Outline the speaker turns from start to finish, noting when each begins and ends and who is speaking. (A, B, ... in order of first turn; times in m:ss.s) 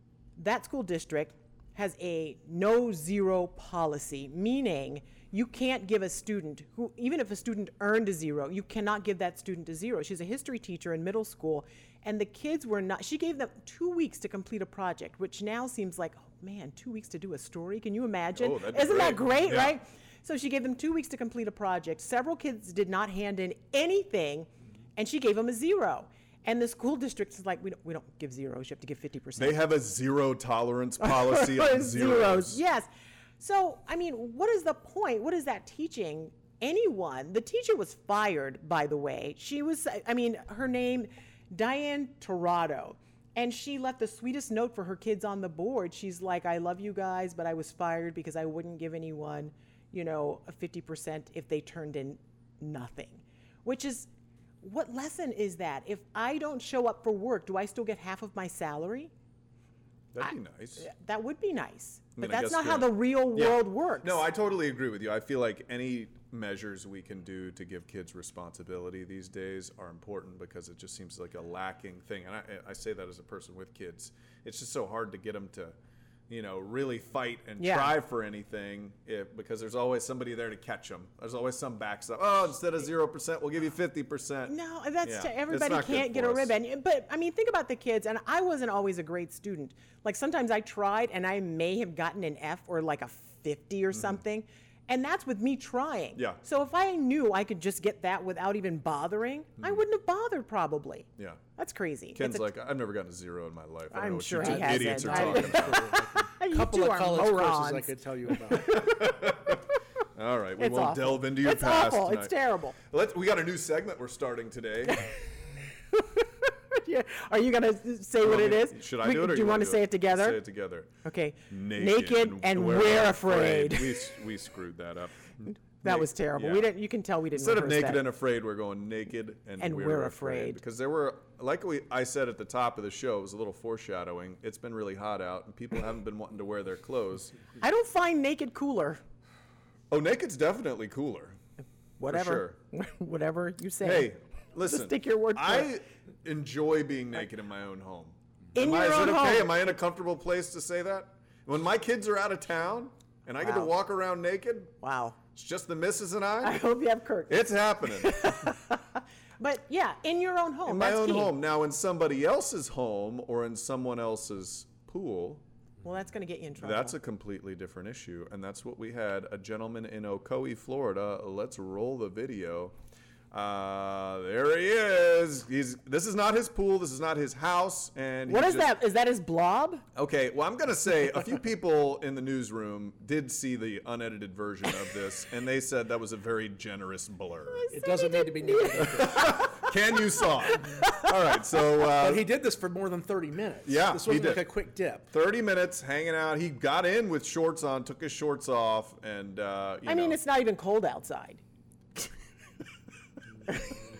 0:00.4-0:29.6 A
0:18.4-0:19.8 B
0:29.4-0:32.6 B
0:31.0-0:32.9 A
0:33.4-0:54.1 A
0:54.6-0:59.1 A
1:00.1-1:00.9 B
1:00.2-1:04.2 A
1:02.2-1:15.7 B
1:16.3-1:26.5 B
1:17.6-1:17.9 A
1:24.5-1:42.5 A
1:36.2-1:36.4 B
1:42.1-1:45.9 B
1:43.9-1:47.9 A
1:44.4-1:48.8 C
1:48.6-1:55.1 B
1:50.6-1:52.8 A
1:55.9-2:00.4 A
1:58.2-2:00.9 B
2:01.0-2:04.1 A
2:01.5-2:06.7 B
2:05.8-2:08.0 A
2:07.3-2:17.4 B
2:09.6-2:10.6 A
2:17.6-2:19.0 A
2:19.9-2:21.4 B
2:22.0-2:24.1 A
2:22.1-2:22.6 B
2:23.8-2:34.7 B
2:24.6-2:25.7 A
2:28.5-2:29.5 A
2:33.4-2:33.7 A
2:34.8-2:35.2 A
2:35.3-2:36.6 B
2:36.4-2:41.3 A
2:37.3-2:38.5 B
2:40.6-2:45.4 B
2:45.8-2:47.0 A
2:46.6-2:52.7 B
2:53.3-2:58.7 B
2:58.3-2:59.8 A
3:00.0-3:07.6 B
3:07.5-3:09.7 A
3:07.7-3:09.3 C
3:08.8-3:12.2 B
3:10.5-3:11.1 A
3:12.0-3:15.1 C
3:13.6-3:14.5 B
3:15.1-3:20.2 B
3:19.8-3:21.4 A
3:23.5-3:23.7 A